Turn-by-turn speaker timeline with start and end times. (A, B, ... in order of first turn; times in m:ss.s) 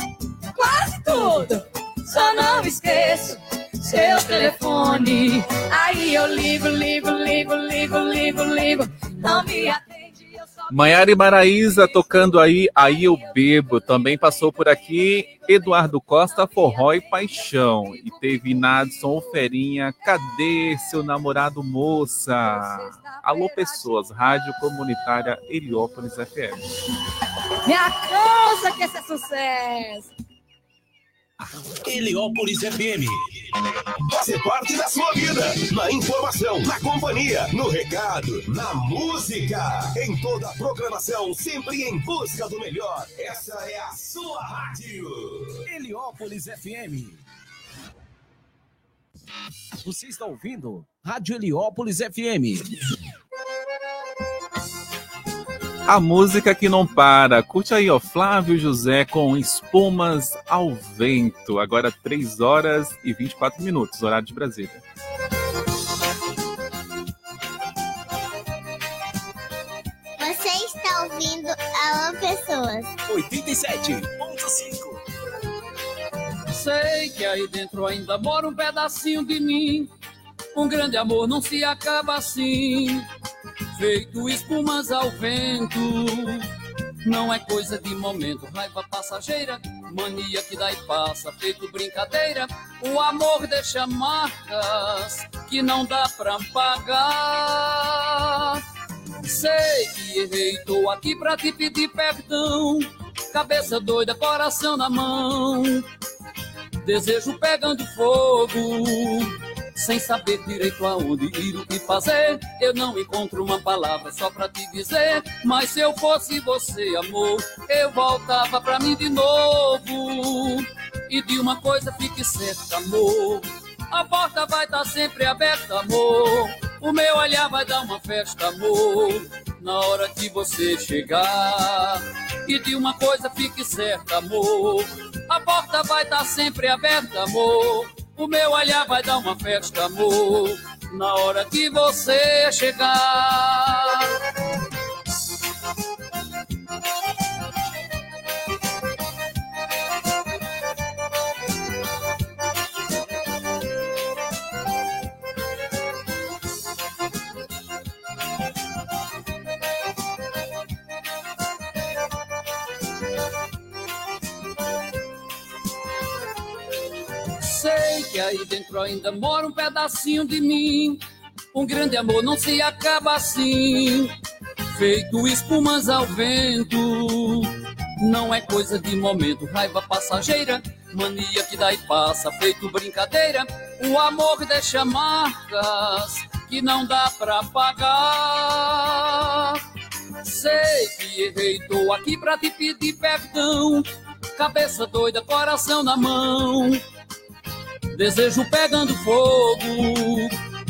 0:00.6-0:10.6 A
0:10.7-0:26.6 B
0:16.6-0:17.0 A
0:17.7-0:18.7 A
0:22.6-0:23.8 A
0:27.7-0:30.1 A
0:31.8-0:33.2 C
0:34.1-0:45.5 D
0:45.7-0:47.2 C
0:49.8-0:52.7 C
0:55.9-1:04.8 B
1:10.2-1:12.9 E
1:13.1-1:15.0 C
1:16.5-1:19.9 F
1:20.6-1:23.1 F
1:23.8-1:26.5 F
1:27.0-1:38.6 F
1:39.2-1:45.9 F
1:46.8-2:24.1 F
2:47.4-2:54.1 F
2:54.7-3:09.6 F
3:10.2-3:16.8 F
3:18.0-3:20.4 F